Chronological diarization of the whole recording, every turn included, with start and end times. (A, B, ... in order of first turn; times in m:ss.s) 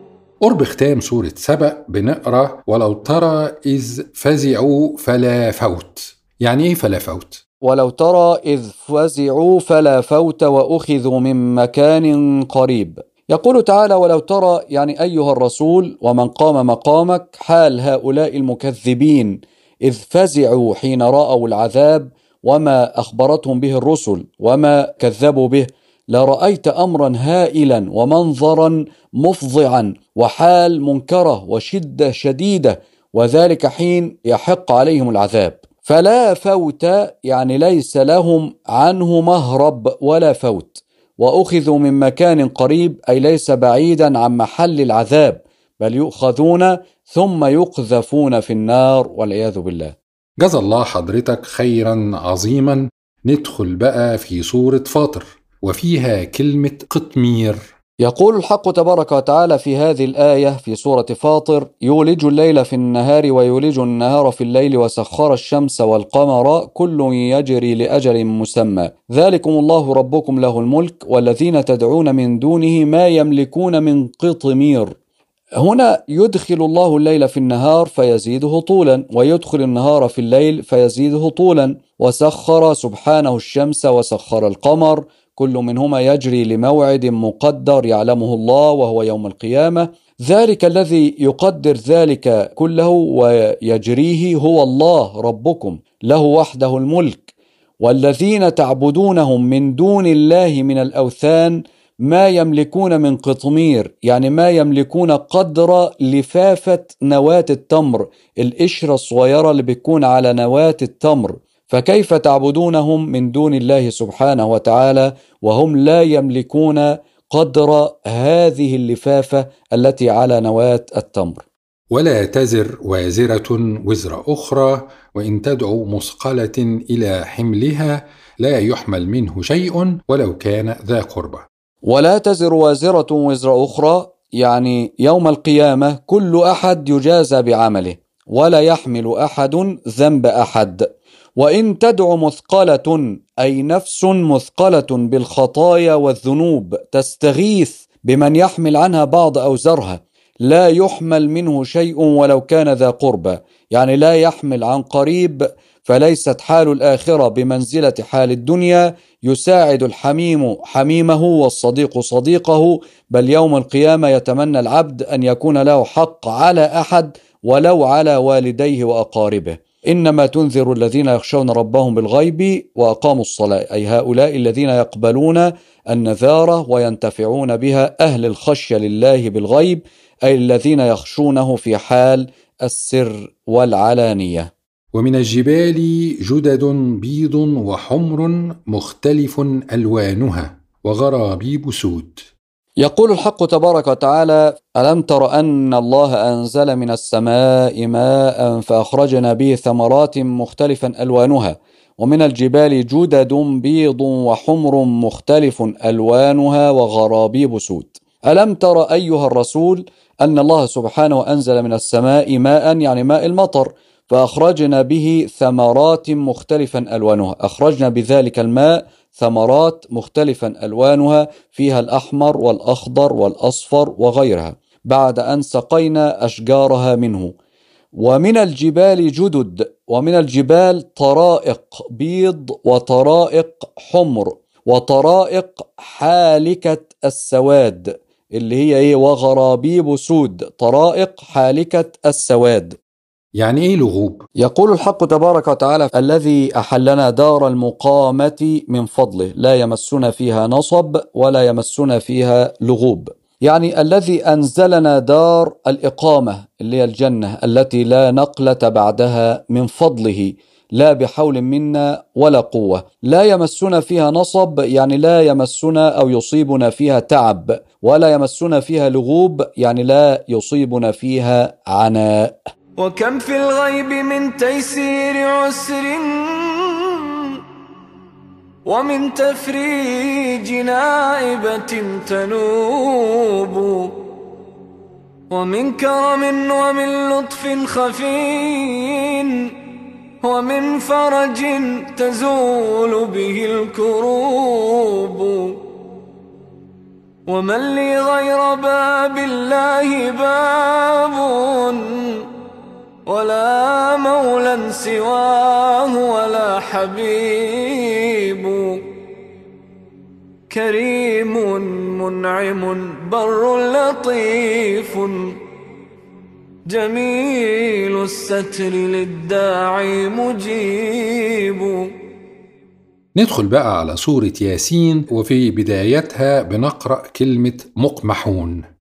0:00.4-0:07.4 A
0:07.6-0:50.0 B
0:50.4-0:57.7 A
0:58.0-1:15.0 B
1:15.6-2:01.4 B
2:01.9-2:11.5 A
2:11.8-2:20.9 B
2:21.4-3:04.5 B
3:04.9-3:12.3 A
3:12.8-3:47.3 B
3:48.0-4:02.8 B
4:03.3-4:04.3 A
4:04.4-4:32.4 B
4:32.8-4:37.4 C
4:38.6-4:44.0 C
4:45.3-4:49.6 C
4:50.2-4:55.6 C
4:57.3-5:02.3 C
5:03.1-5:08.9 C
5:10.5-5:15.4 C
5:16.7-5:21.9 C
5:23.2-5:28.7 A